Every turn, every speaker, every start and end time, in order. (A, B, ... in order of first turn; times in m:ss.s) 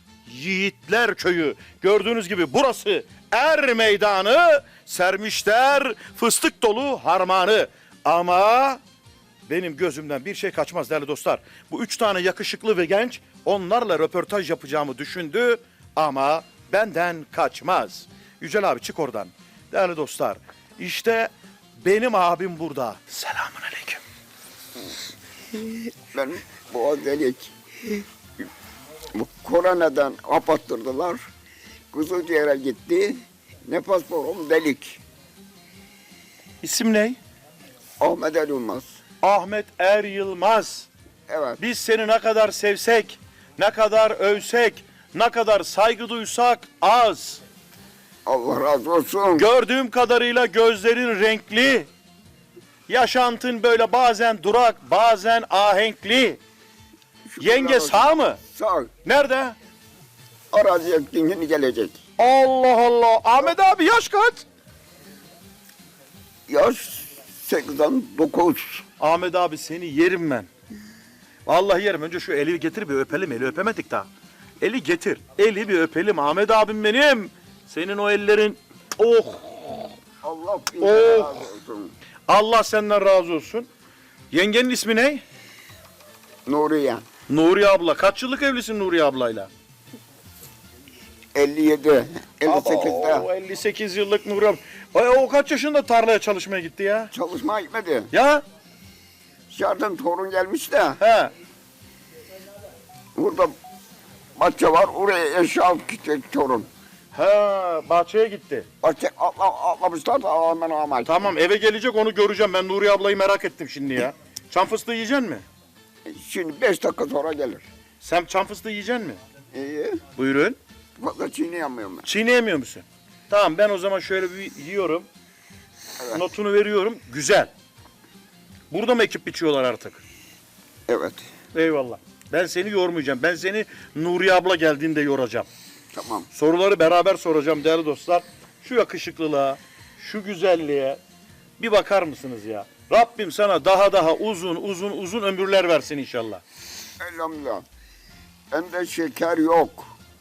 0:00.2-0:08.8 A
0:09.5-0:24.0 A
0:26.1-0:28.0 B
0:29.1-0:31.2 B
0:31.9-0:35.0 B
0:36.6-0:37.2 A
0:38.0-0:39.0 B
0:39.2-0:40.9 A
0:41.3-0:41.6 B
0:41.6-0:47.4 A
0:48.2-0:49.4 B
0:49.3-0:51.9 A
0:52.9-0:56.4 A
0:57.3-0:58.9 B
0:57.4-0:58.4 A
0:59.0-0:59.5 A
1:00.5-1:02.0 B
1:02.2-1:04.4 A
1:06.5-1:08.8 B
1:09.0-1:10.5 A
1:11.4-1:14.1 A
1:14.6-1:19.8 A
1:20.2-1:21.9 B
1:20.8-1:21.4 A
1:22.3-1:23.7 A
1:24.3-1:25.2 A
1:26.4-1:27.0 B
1:27.3-1:29.5 A
1:31.3-1:33.3 B
1:32.4-1:37.1 A
1:37.1-1:38.1 B
1:38.1-1:38.4 A
1:39.5-1:41.0 B
1:41.0-1:41.3 A
1:43.2-1:43.5 B
1:44.4-1:46.7 B
1:47.1-1:48.7 A
1:48.8-1:51.2 B
1:51.0-1:55.4 A
1:56.0-1:57.6 B
1:58.0-1:59.2 A
1:59.5-2:00.0 B
2:00.1-2:00.6 A
2:01.0-2:02.0 B
2:02.0-2:05.1 A
2:06.1-2:07.5 A
2:08.7-2:10.0 A
2:10.9-2:11.2 B
2:11.5-2:15.5 A
2:15.9-2:16.3 B
2:16.3-2:21.0 A
2:21.6-2:26.4 A
2:27.0-2:27.6 B
2:28.5-2:29.9 B